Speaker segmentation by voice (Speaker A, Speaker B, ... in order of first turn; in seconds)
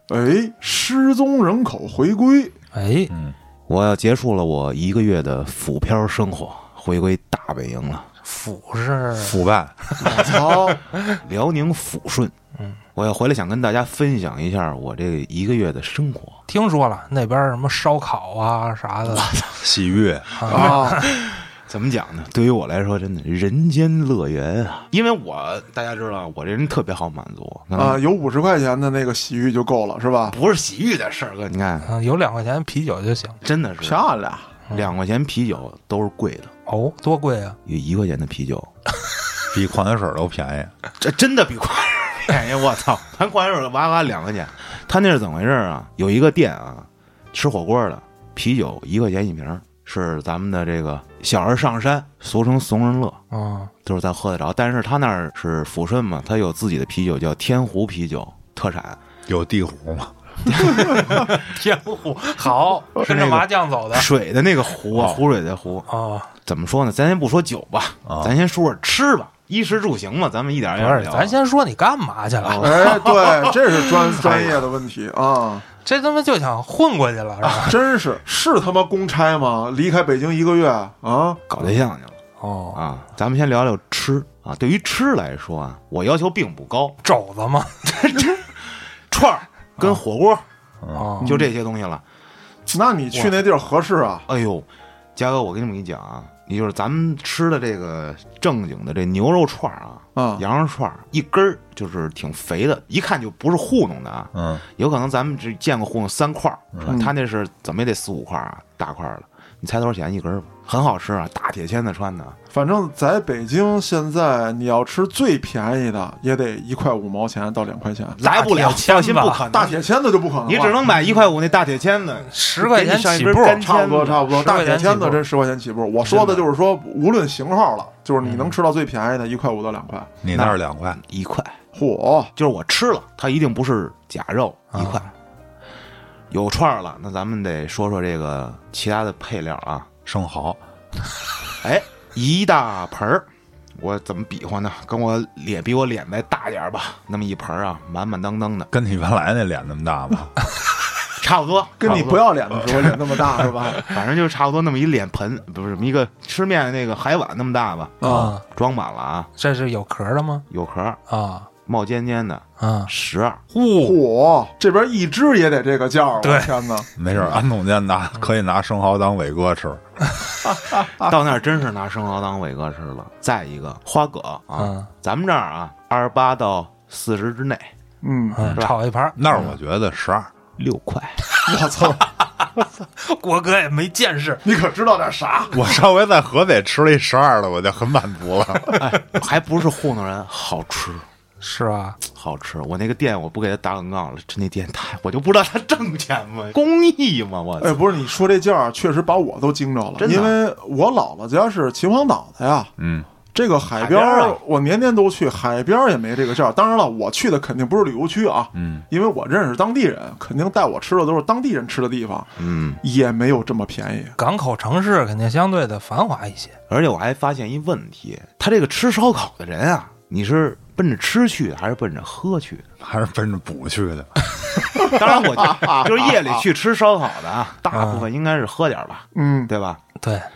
Speaker A: 0.1-2.5, 10.0-10.8, 20.5-21.0, 27.7-30.4, 33.8-34.5, 72.6-75.7, 77.6-81.4, 91.2-91.5, 92.7-94.3, 100.2-100.4, 106.9-107.1, 112.5-118.2, 119.5-120.8, 123.6-130.1, 131.7-132.3, 151.8-153.8, 158.0-158.3, 163.8-166.9, 170.5-171.1, 178.0-178.4, 181.5-182.1, 184.4-185.6, 197.6-202.7, 203.3-214.2, 224.7-226.4, 229.2-229.5
Speaker B: 2.7-3.1, 8.2-9.4, 16.5-19.3, 20.4-21.1, 31.8-33.4, 36.7-37.6, 53.3-53.7, 60.6-64.1, 65.9-66.3, 70.8-72.9, 75.8-77.8, 82.4-82.8, 87.0-87.8, 91.0-91.3, 118.2-119.5, 122.3-123.7, 124.2-125.2, 128.2-128.6, 134.7-135.1, 158.0-158.4, 159.4-160.5, 161.1-161.5, 162.6-162.9, 163.5-164.0, 166.2-166.5, 174.6-174.9, 178.4-179.2, 182.6-184.4, 191.4-192.0, 214.2-216.6, 227.7-228.1, 230.0-230.3
Speaker C: 3.1-3.4, 9.2-9.8, 19.6-20.3, 39.5-40.7, 59.3-60.1, 68.1-68.3, 90.8-91.1, 104.3-104.6, 130.2-131.0, 140.1-140.6, 148.7-150.3, 167.0-169.8, 178.4-180.3, 185.5-188.8, 202.8-203.1, 208.6-208.8, 222.8-224.9
Speaker D: 3.7-8.1, 11.1-12.3, 12.9-16.4, 19.1-19.6, 20.4-28.0, 30.3-31.9, 33.4-34.0, 34.7-36.5, 37.6-38.7, 41.0-53.2, 53.8-59.0, 60.5-61.3, 63.0-65.9, 66.5-71.3, 72.4-73.5, 74.1-74.6, 81.5-82.2, 82.7-87.0, 87.8-90.4, 91.2-92.0, 94.3-112.4, 118.2-119.8, 120.5-124.2, 130.3-131.6, 132.3-135.1, 136.3-139.9, 141.6-148.7, 151.2-152.9, 153.8-159.3, 160.5-161.0, 161.7-163.4, 170.7-177.7, 180.6-181.4, 188.7-191.1, 192.1-197.8, 200.0-200.4, 203.8-204.4, 212.4-212.8, 216.7-222.7, 224.8-229.8